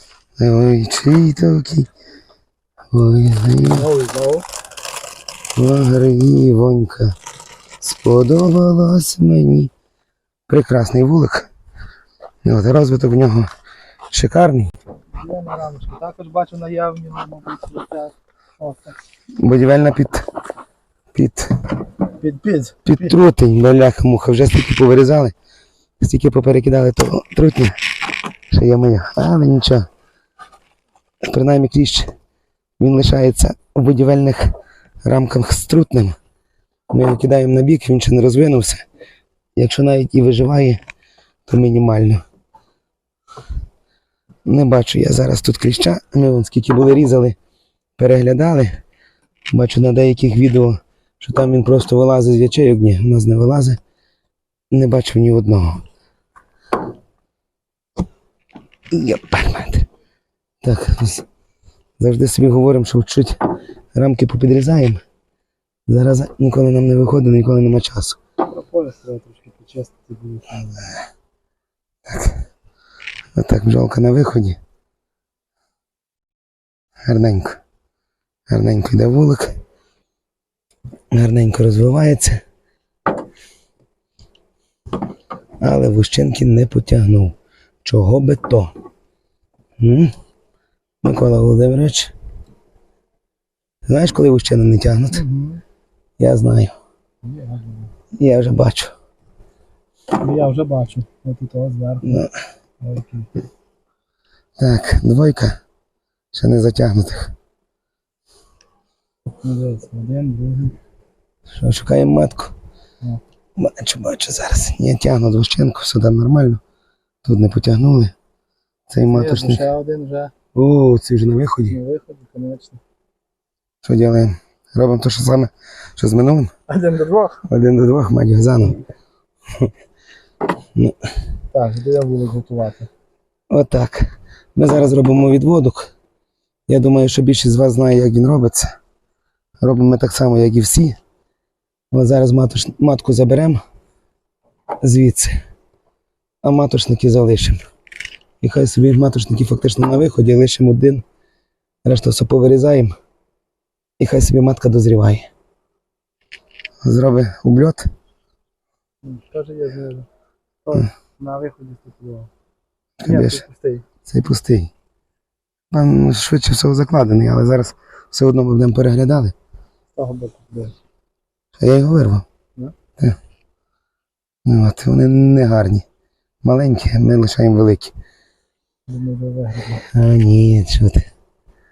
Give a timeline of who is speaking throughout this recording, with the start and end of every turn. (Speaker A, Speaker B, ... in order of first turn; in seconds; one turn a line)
Speaker A: 0.4-1.9
Speaker A: 2.9-3.9
Speaker B: 3.7-4.5
Speaker A: 5.6-7.1
Speaker A: 7.8-9.7
Speaker A: 10.5-11.5
Speaker A: 12.4-13.5
Speaker A: 14.1-14.7
Speaker B: 15.1-19.0
Speaker A: 19.4-20.2
Speaker A: 21.1-21.5
Speaker B: 22.2-23.0
Speaker A: 22.9-25.3
Speaker A: 26.0-27.8
Speaker A: 28.5-29.9
Speaker A: 31.2-32.1
Speaker A: 32.8-34.5
Speaker A: 35.0-36.2
Speaker A: 36.9-38.8
Speaker A: 39.6-40.8
Speaker A: 41.5-42.2
Speaker A: 44.5-47.4
Speaker A: 48.0-48.8
Speaker A: 49.5-53.8
Speaker A: 54.7-55.8
Speaker A: 58.9-59.9
Speaker A: 60.6-61.3
Speaker A: 62.0-63.4
Speaker A: 64.0-65.0
Speaker A: 65.9-68.2
Speaker B: 68.5-70.9
Speaker A: 72.1-72.4
Speaker A: 73.3-74.6
Speaker A: 77.1-77.6
Speaker A: 78.5-79.5
Speaker A: 81.1-82.4
Speaker A: 85.6-88.7
Speaker A: 89.8-90.1
Speaker A: 91.0-92.1
Speaker A: 93.9-95.2
Speaker B: 95.1-95.6
Speaker A: 96.2-96.8
Speaker B: 97.2-97.9
Speaker A: 98.2-98.9
Speaker B: 100.1-102.2
Speaker A: 102.0-102.3
Speaker B: 102.8-103.4
Speaker A: 104.6-105.6
Speaker A: 106.3-107.3
Speaker B: 109.4-110.8
Speaker A: 111.5-112.5
Speaker A: 113.6-116.6
Speaker A: 117.2-118.1
Speaker A: 118.9-119.6
Speaker B: 119.0-120.3
Speaker A: 120.5-121.8
Speaker B: 121.7-122.8
Speaker A: 123.8-126.5
Speaker B: 126.7-127.5
Speaker A: 127.5-128.8
Speaker B: 131.5-132.9
Speaker A: 133.5-135.9
Speaker A: 136.7-138.7
Speaker A: 139.6-141.0
Speaker A: 141.9-143.6
Speaker A: 144.8-145.4
Speaker A: 146.4-147.6
Speaker A: 148.4-151.0
Speaker A: 151.8-152.9
Speaker A: 154.0-155.3
Speaker A: 156.8-157.9
Speaker B: 159.0-160.1
Speaker B: 160.7-162.3
Speaker A: 163.0-163.4
Speaker B: 163.0-163.8
Speaker A: 164.1-164.7
Speaker A: 165.7-169.3
Speaker B: 169.9-170.8
Speaker A: 171.6-172.2
Speaker A: 174.5-175.8
Speaker A: 176.4-177.9
Speaker B: 178.9-179.8
Speaker A: 179.8-181.1